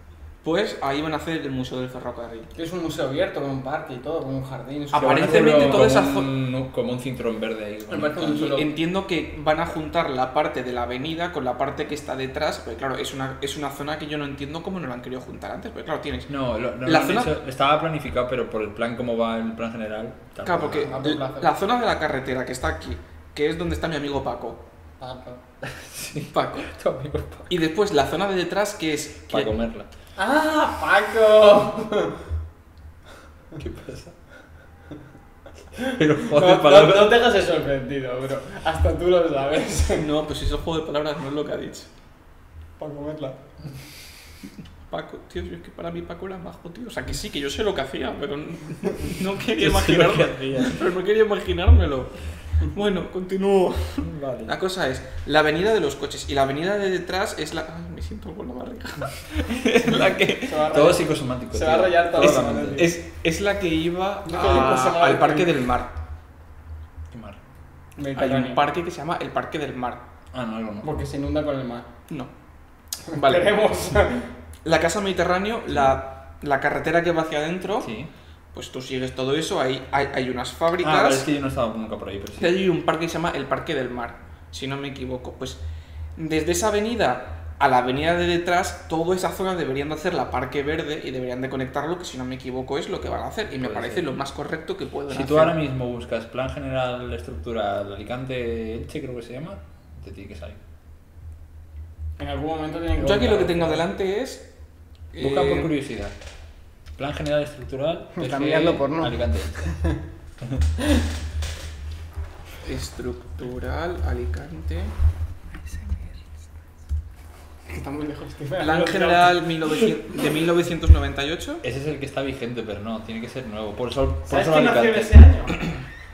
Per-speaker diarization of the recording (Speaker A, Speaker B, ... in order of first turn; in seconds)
Speaker A: 0.4-2.5, 4.9-6.3, 8.4-16.3, 16.8-17.3, 20.4-24.6, 26.3-26.7, 27.5-29.5, 40.0-41.9, 44.9-60.6, 62.2-65.9, 68.2-70.0, 73.1-73.5, 74.6-77.9, 78.5-81.2, 82.4-85.6, 86.2-95.6, 103.0-104.5, 105.1-105.7, 112.6-114.9, 118.6-121.6
Speaker B: 2.5-5.8, 7.9-8.7, 20.7-21.5, 25.0-25.4, 30.2-32.2, 35.8-40.1, 42.8-43.4, 60.4-63.0, 64.3-65.5, 68.0-68.6, 70.8-71.9, 73.1-74.3, 102.2-103.9, 108.2-110.0, 115.7-116.1, 117.7-119.4, 124.3-125.6
Speaker C: 4.9-8.6, 16.3-21.0, 25.6-27.5, 29.3-29.9, 33.6-34.2, 35.8-37.2, 49.6-50.9, 54.0-54.5, 60.7-62.9, 67.1-67.4, 70.3-70.9, 77.8-78.1, 80.8-82.6, 93.6-94.1, 95.1-100.6, 105.2-106.2, 107.0-109.8, 121.6-125.2